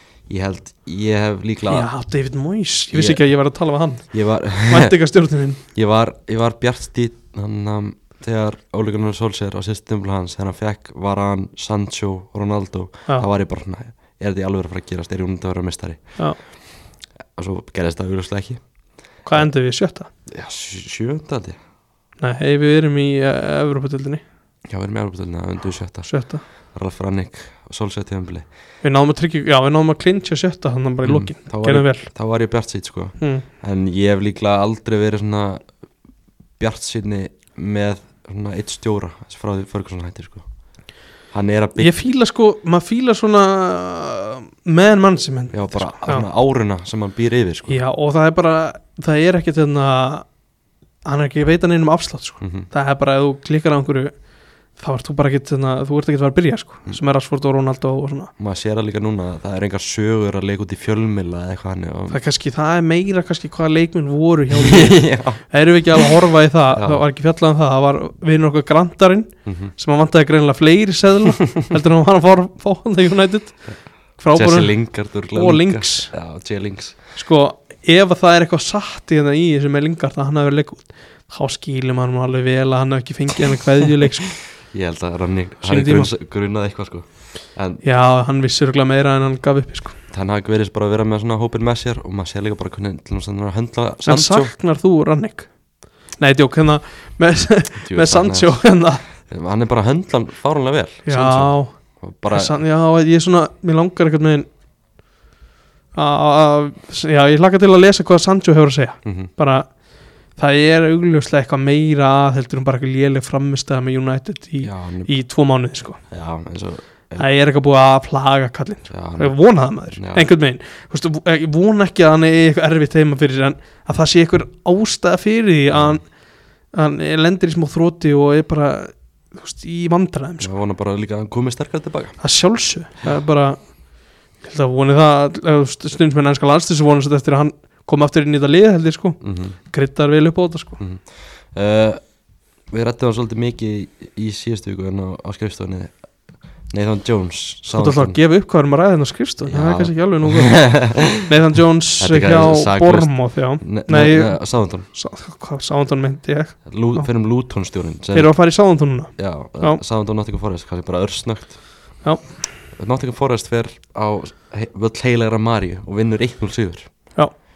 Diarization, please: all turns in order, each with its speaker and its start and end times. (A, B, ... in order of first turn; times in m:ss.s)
0:00.2-0:01.9 A
0:01.7-0:04.1 B
0:02.9-0:03.3 A
0:04.1-0:05.0 A
0:04.6-0:05.6 B
0:05.7-0:16.6 A
0:17.3-0:18.6 A
0:19.2-0:20.1 B
0:20.3-0:21.6 A
0:22.2-0:24.2 B
0:24.7-0:26.1 A
0:26.1-0:26.4 B
0:26.7-0:28.5 A
0:28.8-0:32.1 B
0:31.0-0:35.6 A
0:33.2-0:33.4 B
0:36.6-0:40.5 A
0:41.3-0:41.9 A
0:41.8-0:46.3 B
0:45.5-0:47.8 A
0:47.7-0:50.3 B
0:51.1-0:54.1 B
0:52.4-0:52.7 A
0:54.8-0:58.3 B
0:58.4-1:02.2 A
1:02.1-1:13.6 B
1:04.5-1:05.4 A
1:06.7-1:07.0 A
1:09.5-1:09.7 A
1:14.2-1:14.8 B
1:14.3-1:17.0 A
1:15.3-1:16.1 B
1:17.2-1:24.4 B
1:24.7-1:27.8 A
1:25.6-1:26.1 B
1:27.8-1:30.0 B
1:30.1-1:34.5 A
1:34.1-1:35.5 B
1:36.2-1:39.0 B
1:37.8-1:38.7 A
1:39.2-1:42.6 A
1:41.1-1:41.8 B
1:42.3-1:44.5 B
1:46.0-1:49.7 B
1:49.0-1:49.3 A
1:50.4-1:56.0 B
1:54.6-1:55.1 A
1:56.1-1:57.3 A
1:57.2-2:06.0 B
1:58.9-1:59.4 A
1:59.9-2:00.3 A
2:05.7-2:06.0 A
2:06.7-2:10.5 B
2:10.4-2:12.2 A
2:12.2-2:13.7 B
2:14.4-2:20.8 B
2:19.2-2:19.6 A
2:20.8-2:22.0 A
2:22.7-2:25.9 A
2:26.7-2:28.2 A
2:27.7-2:37.1 B
2:29.5-2:31.3 A
2:32.0-2:34.9 A
2:36.7-2:38.4 A
2:38.1-2:39.8 B
2:39.2-2:41.6 A
2:42.0-2:42.3 B
2:42.8-2:46.9 A